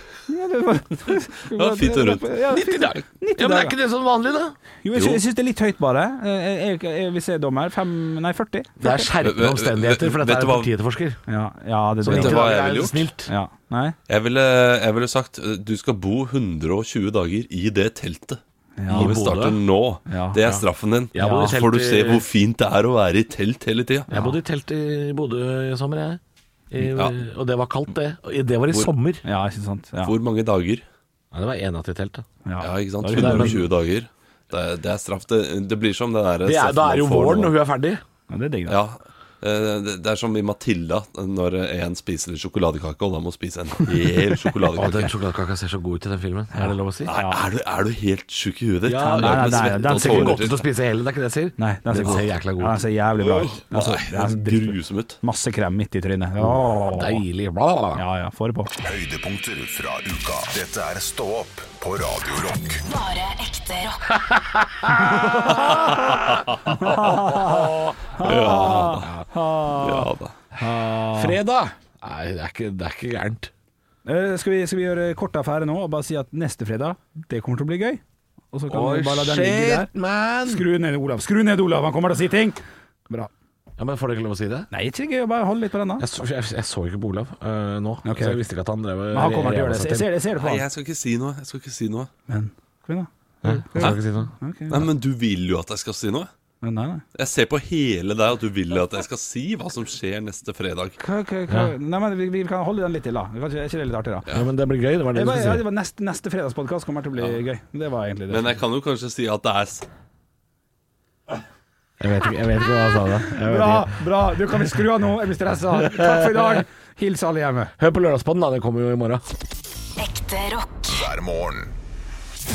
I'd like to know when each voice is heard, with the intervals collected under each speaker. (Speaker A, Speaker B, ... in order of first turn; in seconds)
Speaker A: 0.3-3.8, 4.8-9.1, 11.3-12.5, 13.3-14.0, 18.8-19.2, 20.1-20.4, 21.2-21.6, 24.1-24.4, 29.2-30.2, 32.5-33.6, 38.3-38.8, 46.5-47.4, 49.0-50.4, 51.6-57.2, 58.0-58.7, 64.9-66.0, 66.7-71.4, 74.1-78.0, 78.5-79.9, 80.5-83.3, 84.7-86.1, 88.0-88.4, 89.1-90.6, 92.3-94.9, 96.6-97.0, 101.0-104.3, 105.1-108.6, 113.3-117.7
Speaker B: 1.5-2.4, 5.0-5.2, 9.2-10.7, 12.1-13.1, 14.1-24.1, 26.9-27.2, 30.0-30.8, 32.6-37.5, 38.7-45.1, 47.0-50.6, 53.3-55.2, 65.7-66.8, 68.2-69.1, 69.8-70.3, 90.4-92.1, 94.7-96.3, 97.2-101.0, 108.3-109.9
Speaker C: 2.5-4.6, 8.8-11.2, 12.0-13.3, 18.9-19.6, 20.4-22.2, 24.1-26.2, 26.7-29.2, 31.3-32.2, 33.1-33.7, 36.4-38.0, 44.7-47.1, 48.9-52.8, 56.4-58.0, 64.3-65.5, 67.4-69.2, 71.1-73.5, 78.7-80.7, 83.8-84.7, 86.0-90.1, 93.4-94.3, 104.3-105.6, 112.0-114.0, 115.7-116.6, 117.8-119.2
Speaker D: 58.8-62.8, 120.9-121.7
Speaker E: 62.9-64.2, 120.0-121.0